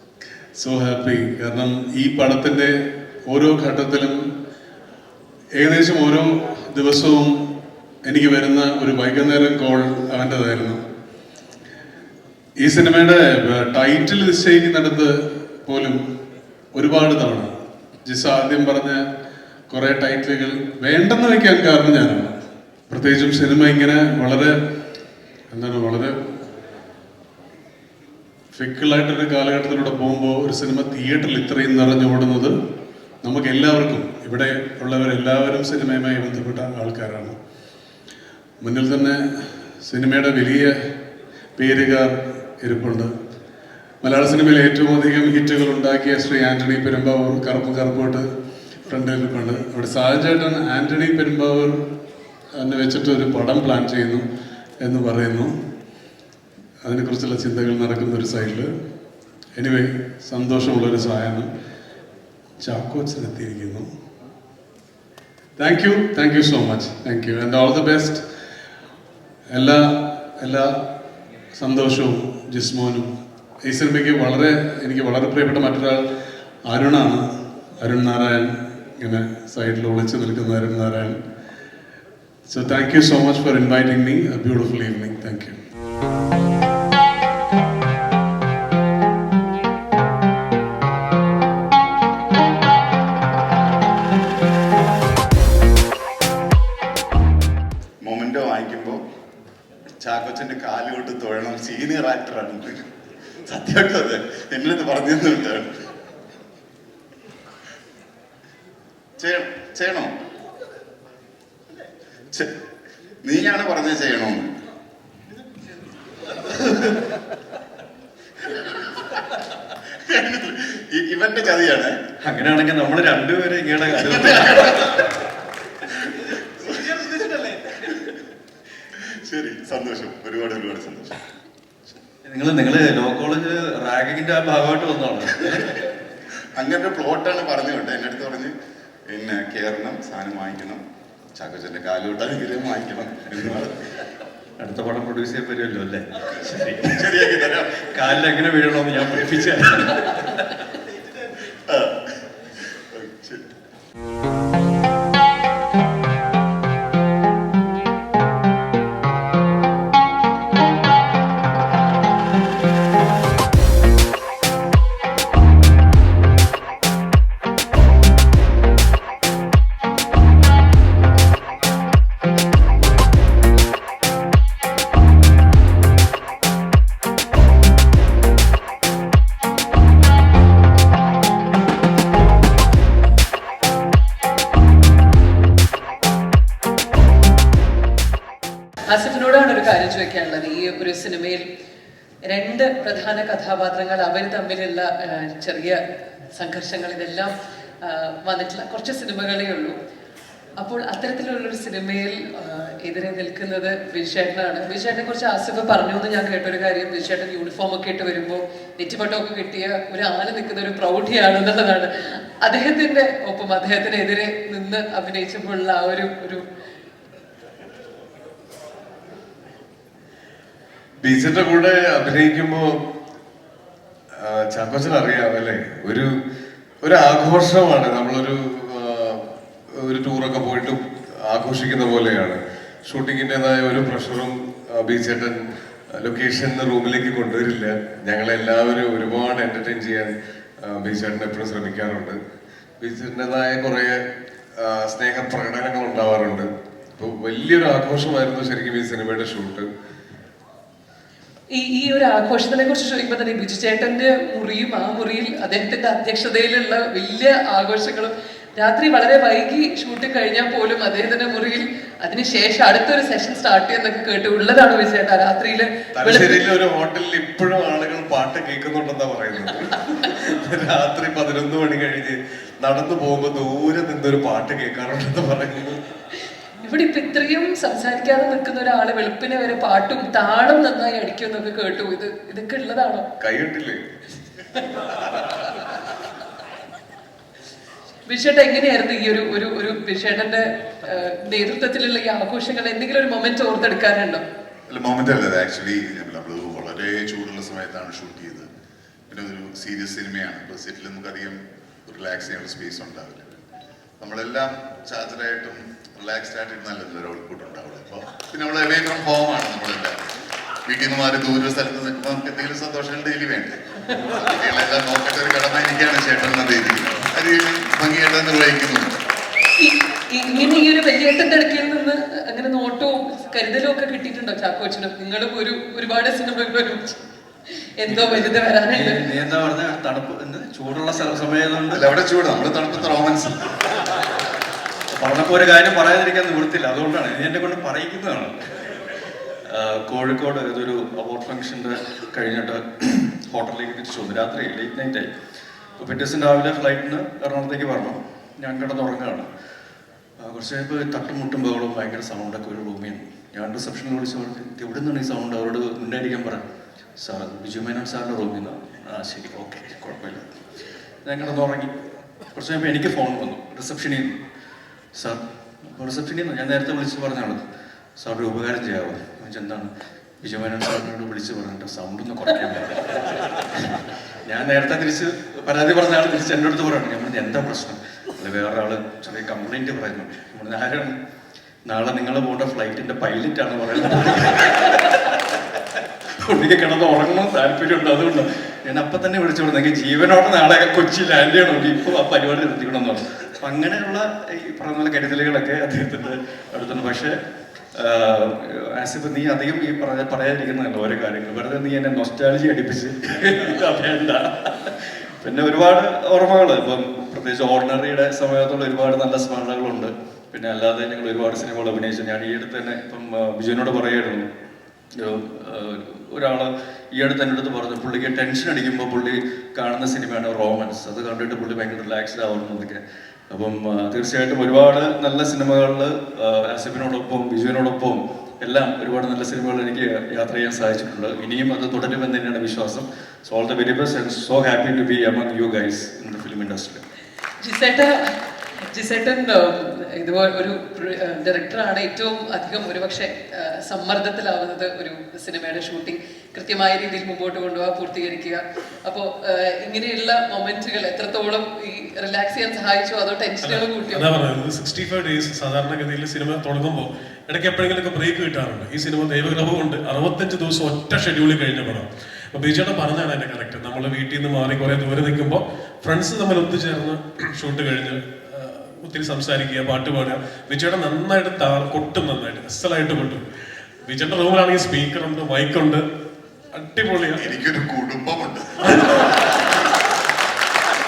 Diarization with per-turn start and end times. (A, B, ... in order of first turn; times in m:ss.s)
0:00.6-0:04.3 A
0:05.6-0:07.5 A
0:08.0-0:10.8 A
0:12.6-0:16.0 A
0:16.7-0:19.0 A
0:19.7-0:22.4 A
0:22.9-0:24.6 A
0:25.5-0:26.3 A
0:28.5-0:32.6 A
0:33.2-0:37.4 A
0:38.6-0:40.8 A
0:41.6-0:43.1 A
0:44.0-0:48.3 A
0:48.9-0:51.8 A
0:52.6-0:54.2 A
0:54.8-0:55.5 A
0:56.8-0:58.7 A
0:59.6-1:01.5 A
1:02.6-1:03.9 A
1:05.6-1:08.2 A
1:09.5-1:10.8 A
1:11.5-1:13.1 A
1:13.6-1:16.0 A
1:16.6-1:17.3 A
1:17.8-1:21.2 A
1:22.5-1:25.6 A
1:38.0-1:39.0 B
1:40.0-1:42.9 B
1:43.4-1:45.7 B
1:49.2-1:50.1 B
1:53.2-1:54.5 B
1:58.6-1:59.0 B
2:00.1-2:02.0 B
2:02.2-2:04.9 C
2:04.0-2:04.9 B
2:06.6-2:07.0 B
2:09.3-2:11.2 B
2:12.2-2:15.7 C
2:16.6-2:18.5 B
2:19.1-2:20.8 B
2:21.4-2:23.8 B
2:24.6-2:30.4 C
2:26.9-2:27.9 B
2:29.0-2:29.3 B
2:31.7-2:32.0 B
2:32.9-2:33.5 B
3:08.9-3:11.4 D
3:12.2-3:15.8 D
3:16.3-3:19.8 D
3:20.6-3:31.9 D
3:32.4-3:36.4 D
3:41.0-3:42.7 E
3:44.2-3:46.1 E
3:46.8-4:02.2 E
4:02.8-4:04.0 E
4:04.6-4:09.7 E
4:11.5-4:26.4 D
4:26.0-4:35.8 E
4:36.6-4:43.0 D
4:43.2-4:43.8 E
4:48.1-4:54.2 D
4:54.7-4:58.5 B
4:59.1-5:03.4 B
5:04.0-5:10.0 B
5:10.7-5:18.9 B
5:19.6-5:27.0 D
5:27.8-5:29.0 D
5:27.9-5:31.8 C
5:31.7-5:33.5 B
5:34.9-5:38.7 C
5:39.4-5:45.1 C
5:45.8-5:49.3 C
5:50.2-5:56.4 C
5:57.0-6:00.4 C
6:01.1-6:01.7 C
6:02.3-6:04.2 C
6:05.0-6:07.4 C
6:08.0-6:09.7 C
6:10.2-6:20.9 C
6:21.7-6:25.3 C
6:26.2-6:37.1 C
6:37.8-6:54.2 C
6:55.0-7:02.8 C
7:03.3-7:16.8 C
7:17.4-7:18.0 D
7:18.7-7:34.1 D
7:33.4-7:53.2 F
7:53.9-7:55.8 F
7:56.5-7:57.3 F
7:57.2-7:58.5 B
7:58.7-7:59.3 F